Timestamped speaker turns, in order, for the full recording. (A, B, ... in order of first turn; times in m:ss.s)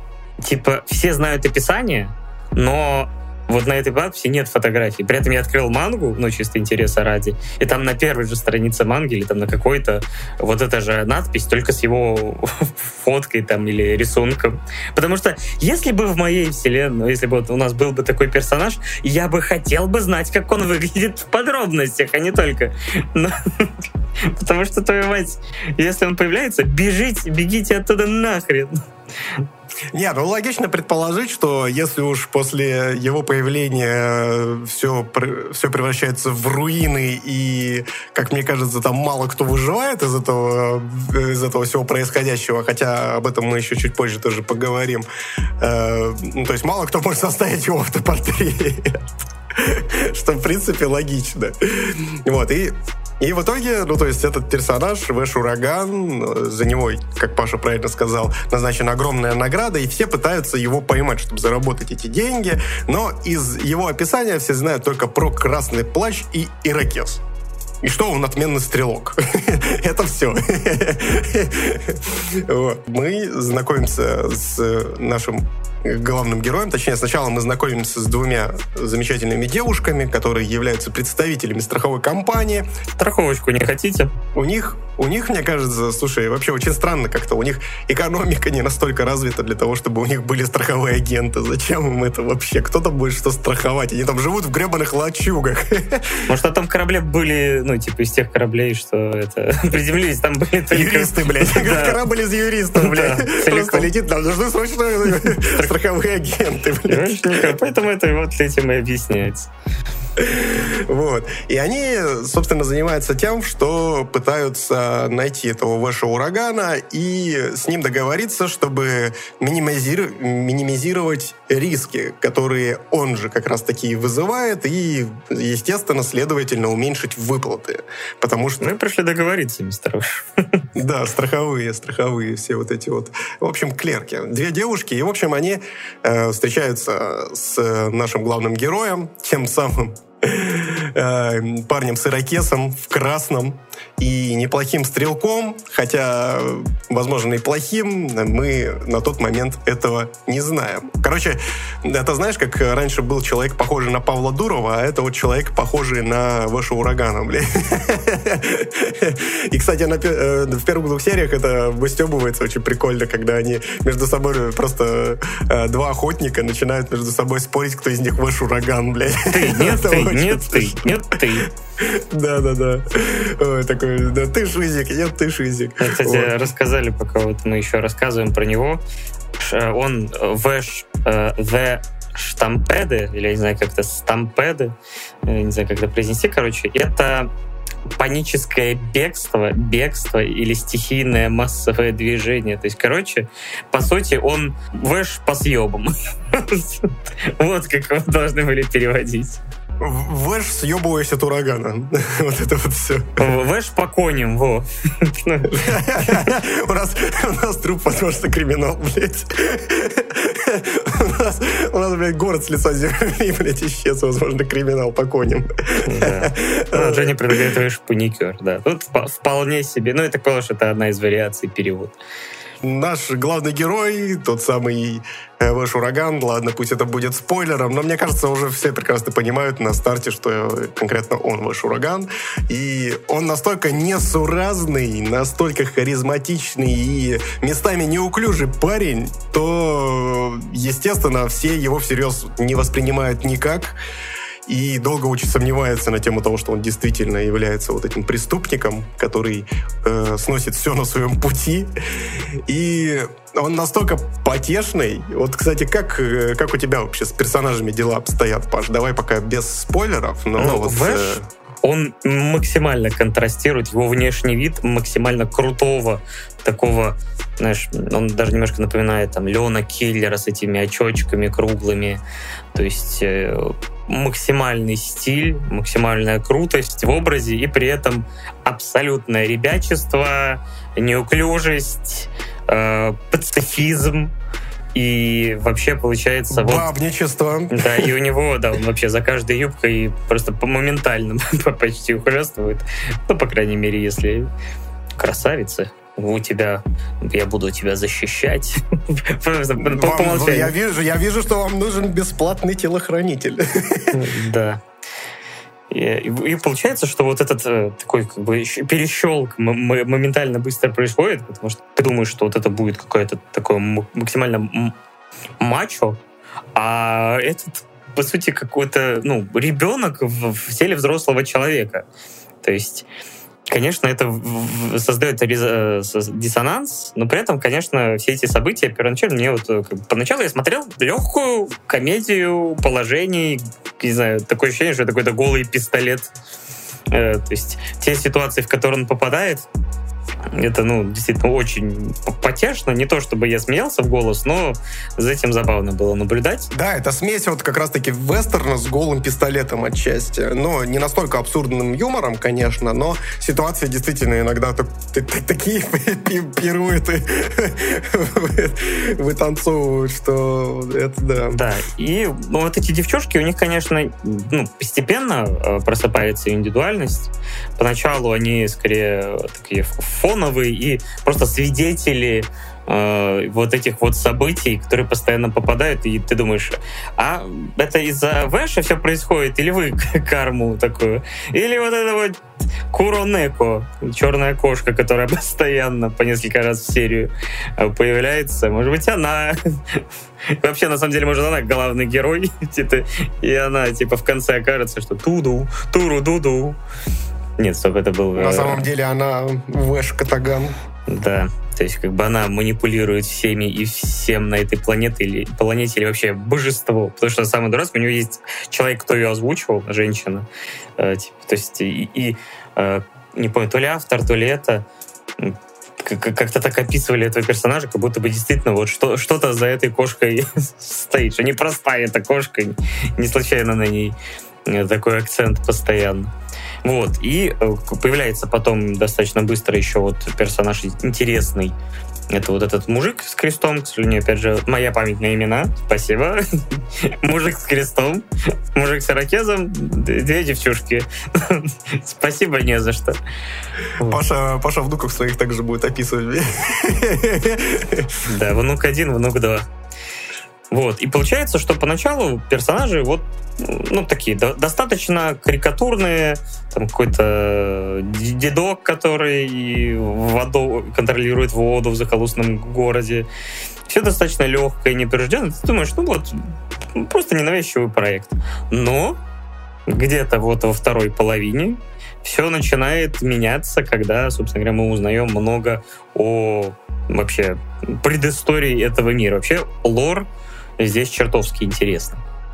0:00.4-0:29.4 A
0:29.9-0:45.0 B
0:45.6-1:07.2 B
1:07.8-1:22.7 B
1:23.0-1:24.1 A
1:24.3-1:36.2 B
1:36.3-1:42.0 A
1:40.7-1:47.6 B
1:42.7-1:43.9 A
1:45.3-1:45.7 A
1:46.9-1:49.5 A
1:50.2-2:08.7 B
2:08.6-2:10.6 A
2:10.8-2:56.4 B
2:49.3-2:51.5 A
2:55.8-2:58.8 A
2:59.4-3:04.7 A
3:05.2-3:07.3 A
3:07.9-3:19.4 A
3:19.8-3:23.2 B
3:23.2-3:26.3 A
3:25.5-3:37.5 B
3:35.8-3:41.9 A
3:42.6-4:03.8 B
4:04.4-4:21.2 B
4:20.4-4:32.0 A
4:32.5-4:44.1 A
4:44.7-4:46.7 A
4:46.3-4:47.9 B
4:47.5-4:54.3 A
4:55.0-5:00.5 A
4:59.6-5:04.0 B
5:03.9-5:04.6 A
5:05.7-5:14.7 A
5:15.4-5:16.0 A
5:16.5-5:21.8 A
5:22.4-5:22.9 A
5:23.5-5:36.1 A
5:36.9-5:39.4 A
5:40.3-5:46.5 A
5:46.5-6:01.4 B
6:01.3-6:22.2 A
6:22.7-6:29.8 A
6:30.3-6:36.6 A
6:37.4-6:38.7 A
6:38.2-6:40.6 B
6:40.9-6:50.2 A
6:50.8-6:54.6 A
6:55.2-7:03.9 A
7:04.4-7:06.1 A
7:06.6-7:11.5 A
7:12.1-7:23.0 A
7:23.8-7:24.0 A
7:23.8-7:28.0 B
7:28.0-7:29.4 A
7:30.5-7:43.0 A
7:43.7-7:49.0 A
7:49.7-8:00.1 A
8:00.6-8:02.0 A